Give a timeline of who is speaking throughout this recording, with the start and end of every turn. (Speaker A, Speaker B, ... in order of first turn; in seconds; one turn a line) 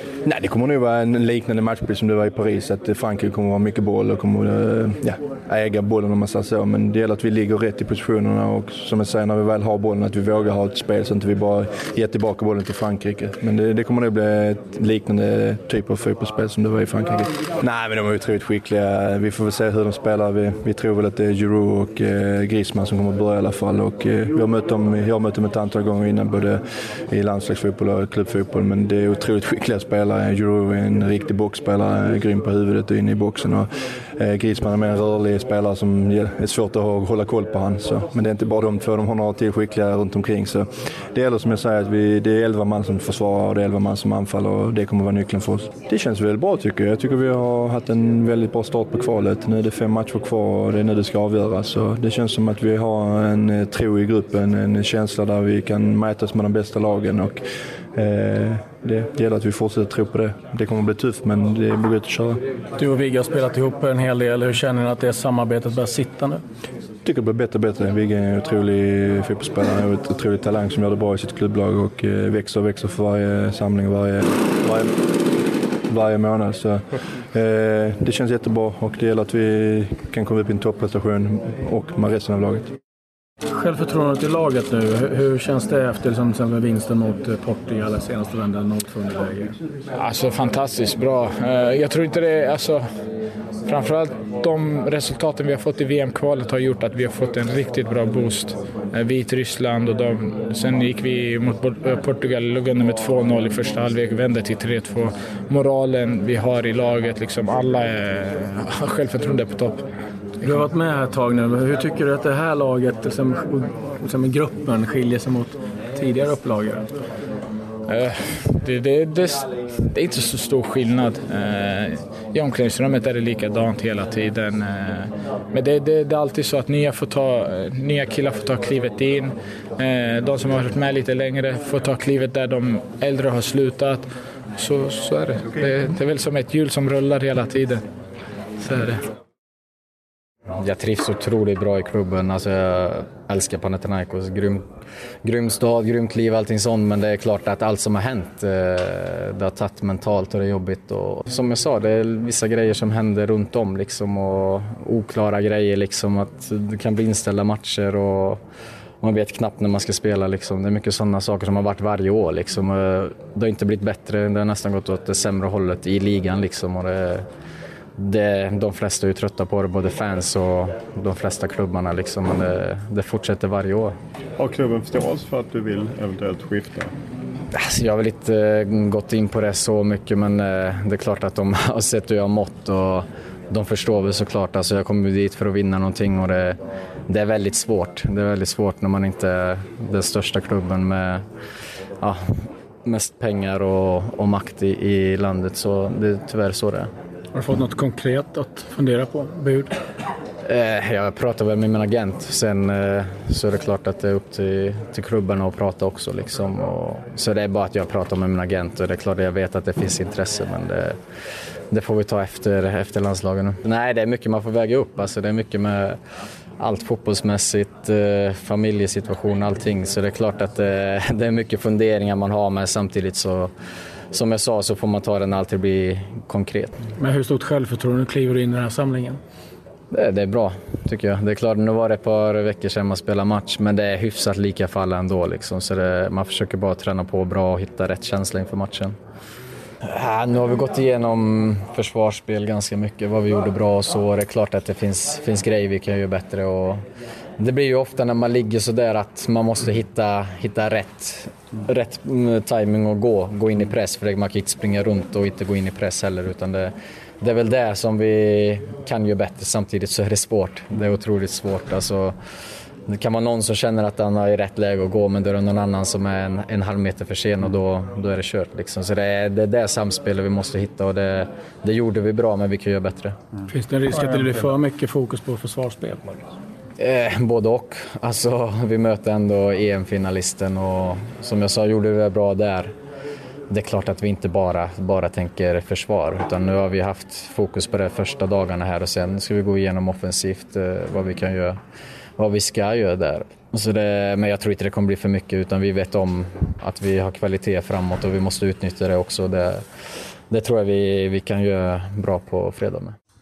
Speaker A: 0.2-57.4
Speaker A: 57.9-62.4
Speaker B: 62.8-66.4
Speaker A: 67.0-74.9
Speaker A: 75.9-82.7
Speaker B: 83.5-89.6
Speaker C: 90.0-92.8
Speaker C: 93.7-109.8
Speaker B: 110.4-116.8
Speaker C: 117.9-137.8
Speaker C: 138.6-139.0
Speaker D: 140.6-144.7
Speaker D: 145.2-158.4
Speaker D: 159.0-167.2
Speaker D: 168.0-173.9
Speaker E: 174.4-176.9
Speaker D: 177.5-191.2
Speaker D: 192.0-196.9
Speaker B: 197.3-199.7
Speaker D: 200.4-211.0
Speaker D: 211.7-216.0
Speaker D: 216.6-223.5
Speaker D: 224.1-226.8
Speaker B: 227.0-229.2
Speaker D: 229.9-238.9
Speaker D: 239.8-246.8
Speaker D: 247.4-262.1
Speaker D: 262.9-273.2
Speaker B: 273.5-276.2
Speaker D: 276.8-282.7
Speaker D: 283.5-291.6
Speaker D: 292.2-299.6
Speaker D: 300.3-302.9